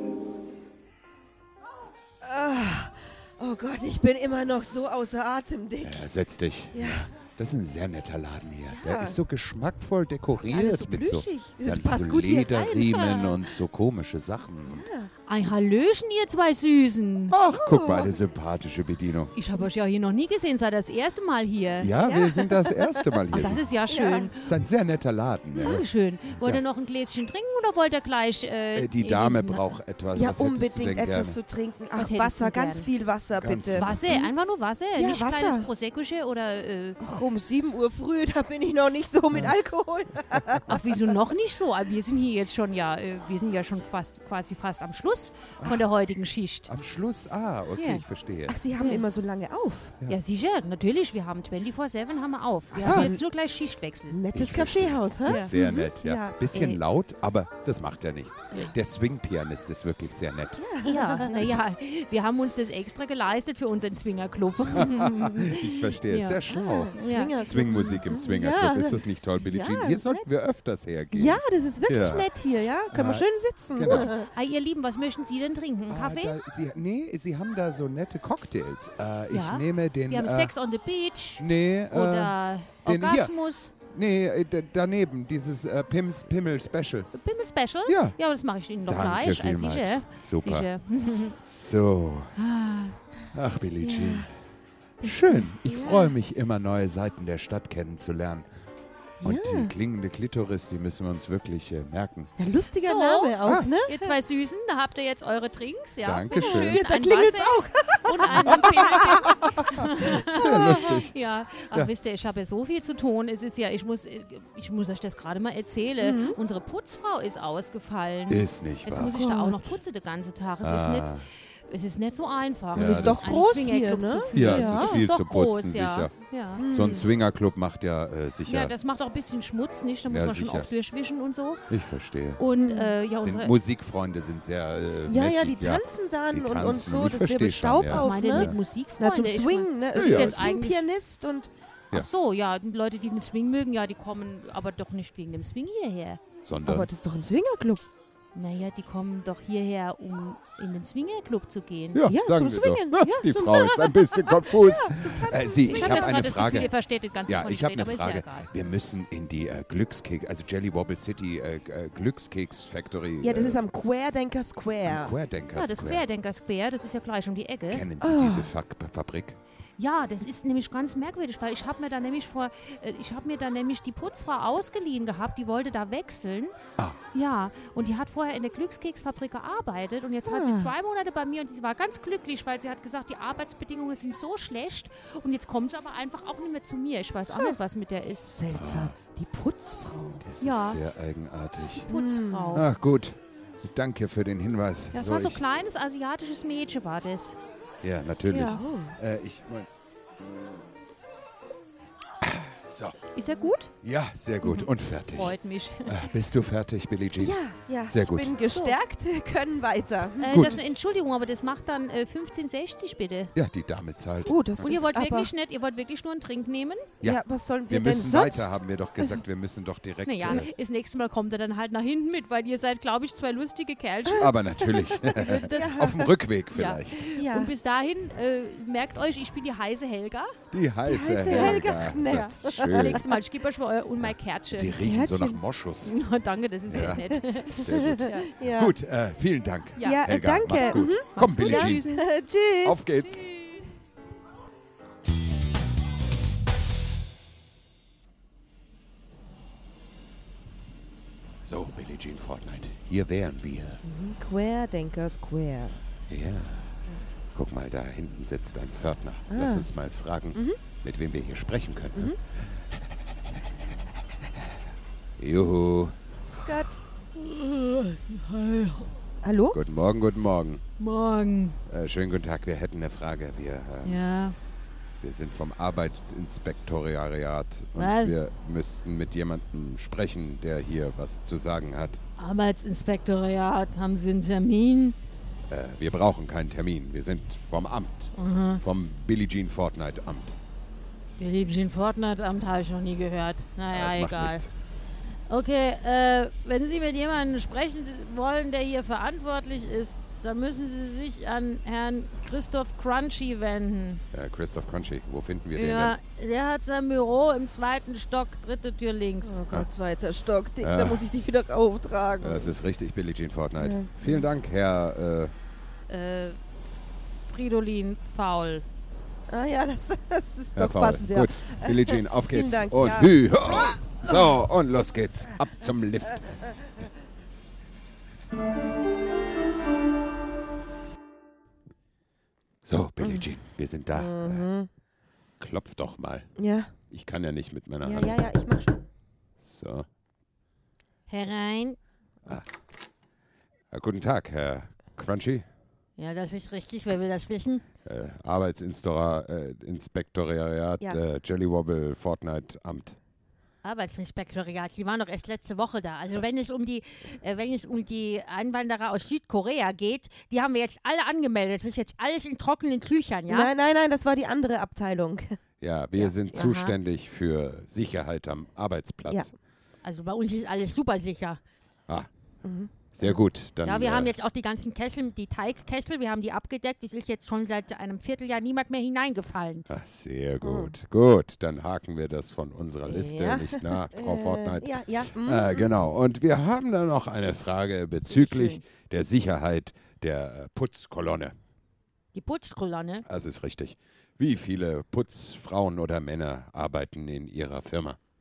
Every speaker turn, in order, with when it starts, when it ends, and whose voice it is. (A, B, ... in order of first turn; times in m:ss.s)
0:02.2-0:06.0 A
0:05.8-0:14.9 B
0:06.7-0:07.0 A
0:08.7-0:09.2 A
0:10.5-0:13.5 A
0:14.6-0:15.1 A
0:15.3-0:17.4 C
0:17.3-0:19.3 B
0:17.5-0:18.2 A
0:19.3-0:21.9 C
0:21.8-0:23.6 B
0:21.9-0:24.3 A
0:23.3-0:24.5 C
0:24.4-0:26.6 B
0:25.5-0:29.6 C
0:28.7-0:31.4 B
0:30.1-0:34.3 A
0:31.9-0:32.9 C
0:33.4-0:34.2 B
0:33.7-0:37.0 C
0:34.9-0:35.7 A
0:37.0-0:41.1 A
0:40.3-0:40.6 B
0:40.7-0:46.7 C
0:46.7-0:48.6 B
0:47.8-0:48.0 C
0:48.5-0:50.0 A
0:48.8-0:49.0 C
0:50.1-0:54.2 C
0:52.7-0:53.2 A
0:52.8-0:53.1 B
0:54.1-0:56.7 A
0:54.3-1:00.6 B
0:55.2-0:55.6 C
1:00.6-1:01.6 A
1:00.8-1:07.3 C
1:04.7-1:12.3 B
1:06.5-1:10.2 A
1:11.1-1:14.3 A
1:12.9-1:14.1 B
1:13.8-1:16.4 C
1:15.9-1:20.5 B
1:19.3-1:23.7 C
1:21.4-1:27.1 B
1:27.1-1:31.4 C
1:27.8-1:28.2 B
1:28.8-1:30.7 B
1:31.4-1:32.4 B
1:32.4-1:33.0 C
1:33.3-1:34.3 B
1:33.8-1:34.3 A
1:35.0-1:36.1 A
1:35.0-1:38.5 B
1:39.2-1:39.7 A
1:39.2-1:42.3 B
1:42.4-1:44.1 A
1:42.8-2:06.7 C
1:43.4-1:43.7 B
1:46.0-1:46.8 B
1:46.3-1:49.6 A
1:48.3-1:51.1 B
1:56.0-1:56.4 A
1:58.3-1:59.1 B
1:59.1-1:59.7 A
2:00.6-2:01.2 B
2:02.7-2:03.4 B
2:02.7-2:05.0 A
2:04.3-2:06.1 B
2:06.6-2:07.0 A
2:06.7-2:08.7 B
2:08.4-2:11.7 C
2:10.1-2:10.7 B
2:11.7-2:12.4 B
2:12.4-2:13.5 C
2:12.6-2:12.9 A
2:13.2-2:18.6 B
2:15.1-2:21.5 A
2:17.9-2:20.9 C
2:19.9-2:20.5 B
2:21.9-2:26.2 C
2:26.4-2:26.9 B
2:26.6-2:27.8 A
2:28.3-2:32.1 C
2:31.9-2:36.7 B
2:32.1-2:36.7 A
2:34.8-2:38.5 C
2:37.2-2:43.6 B
2:43.2-2:45.1 A
2:44.8-2:46.0 B
2:45.5-2:47.8 C
2:47.7-2:49.4 B
2:48.0-2:48.5 A
2:49.8-2:56.6 C
2:57.1-3:08.4 C
3:00.2-3:00.7 A
3:08.3-3:10.2 A
3:08.5-3:09.0 B
3:10.2-3:11.9 B
3:10.4-3:10.8 C
3:11.9-3:12.6 A
3:11.9-3:12.7 C
3:12.5-3:15.4 B
3:14.9-3:17.4 C
3:17.8-3:20.6 B
3:18.3-3:18.9 A
3:22.2-3:23.1 B
3:23.1-3:23.7 C
3:23.8-3:28.3 B
3:24.4-3:26.0 C
3:27.2-3:30.5 A
3:28.5-3:28.8 C
3:30.2-3:33.3 C
3:30.3-3:30.6 B
3:33.3-3:34.7 B
3:34.2-3:35.3 A
3:34.6-3:36.9 C
3:37.0-3:40.5 B
3:37.0-3:39.2 A
3:40.0-3:44.3 C
3:44.1-3:46.1 A
3:44.2-3:47.1 B
3:45.0-3:45.9 C
3:46.5-3:50.4 C
3:47.1-3:47.5 A
3:50.5-3:53.0 B
3:50.8-3:53.1 A
3:51.3-3:54.8 C
3:54.0-3:56.0 B
3:54.8-3:55.4 A
3:55.8-3:58.3 C
3:56.7-4:01.8 B
3:56.7-3:58.7 A
3:59.8-4:02.1 C
3:59.8-4:02.8 A
4:02.6-4:03.3 B
4:02.9-4:03.7 C
4:11.4-4:13.8 B
4:13.8-4:15.8 A
4:16.1-4:22.8 B
4:19.3-4:19.7 A
4:25.2-4:26.0 B
4:26.4-4:26.8 A
4:27.2-4:28.9 C
4:29.2-4:29.6 A
4:29.5-4:30.6 B
4:30.8-4:31.6 C
4:31.7-4:34.0 B
4:33.8-4:34.4 C
4:35.0-4:42.0 B
4:37.8-4:38.2 C
4:42.2-4:45.0 C
4:45.5-4:50.4 B
4:48.2-4:48.6 C
4:51.2-4:54.4 C
4:53.7-4:54.5 B
4:55.3-5:04.0 C
5:04.1-5:05.9 B
5:05.5-5:09.4 C
5:09.2-5:12.5 A
5:10.6-5:11.1 B
5:12.2-5:15.3 B
5:13.6-5:14.3 A
5:15.9-5:16.4 C
5:16.9-5:18.6 C
5:19.3-5:24.4 A
5:20.6-5:26.4 B
5:26.0-5:26.9 A
5:32.6-5:34.5 B
5:33.0-5:33.3 A
5:33.9-5:34.7 A
5:35.4-5:36.3 B
5:36.4-5:36.7 A
5:36.9-5:38.2 B
5:37.8-5:38.9 A
5:39.4-5:39.9 B
5:41.1-5:41.8 C
5:43.7-5:45.4 B
5:46.0-5:47.6 C
5:47.8-5:53.0 B
5:53.6-6:03.5 C
6:03.3-6:05.4 A
6:05.6-6:09.3 B
6:06.0-6:06.7 C
6:09.8-6:11.4 C
6:12.4-6:13.2 A
6:12.9-6:14.1 B
6:13.6-6:19.6 C
6:19.7-6:31.3 B
6:20.4-6:20.7 A
6:22.8-6:25.7 A
6:28.1-6:28.6 C
6:32.1-6:33.0 C
6:33.0-6:38.0 B